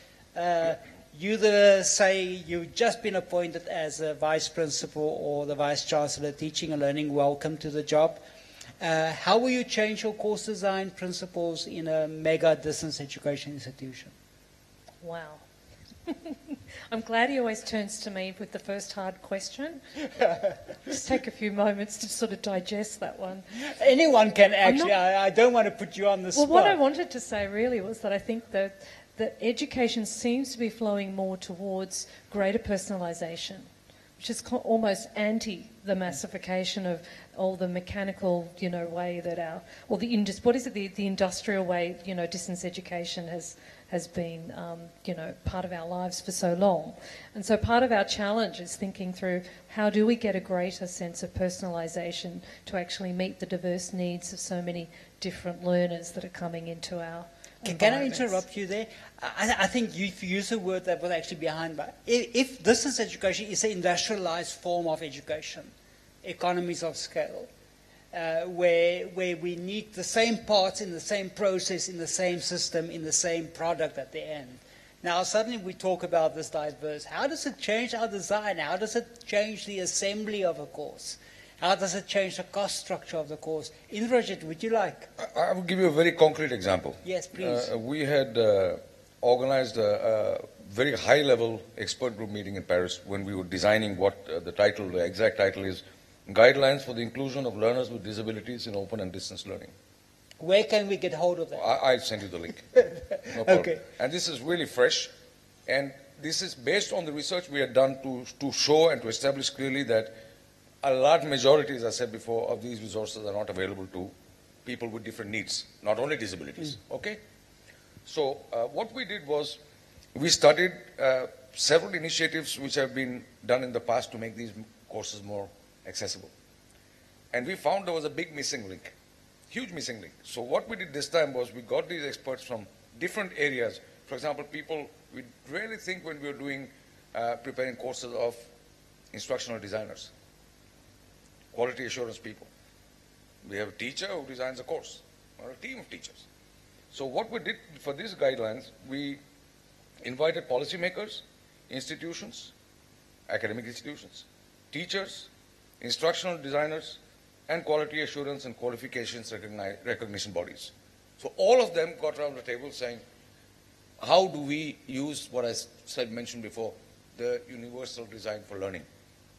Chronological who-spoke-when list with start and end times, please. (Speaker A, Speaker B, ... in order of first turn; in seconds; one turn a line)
Speaker A: 0.3-8.2
Speaker A: 8.8-14.1
Speaker B: 15.0-15.4
Speaker B: 16.1-19.8
Speaker B: 20.9-23.5
Speaker A: 23.7-26.8
Speaker B: 24.6-24.9
Speaker B: 26.4-33.7
Speaker B: 34.2-58.4
Speaker A: 57.6-67.5
Speaker A: 68.1-85.1
Speaker C: 85.2-99.7
Speaker A: 87.0-87.7
Speaker A: 100.4-101.6
Speaker C: 101.5-102.7
Speaker C: 103.3-105.1
Speaker A: 103.4-103.8
Speaker C: 105.7-110.1
Speaker C: 110.8-114.1
Speaker C: 114.7-117.2
Speaker C: 118.1-119.6
Speaker C: 120.2-126.3
Speaker C: 127.3-128.9
Speaker C: 129.5-138.4
Speaker C: 139.1-140.1
Speaker C: 141.5-142.5
Speaker C: 143.4-146.2
Speaker C: 146.9-149.2
Speaker C: 150.0-152.5
Speaker C: 153.3-155.3
Speaker C: 155.8-163.0
Speaker C: 164.0-168.9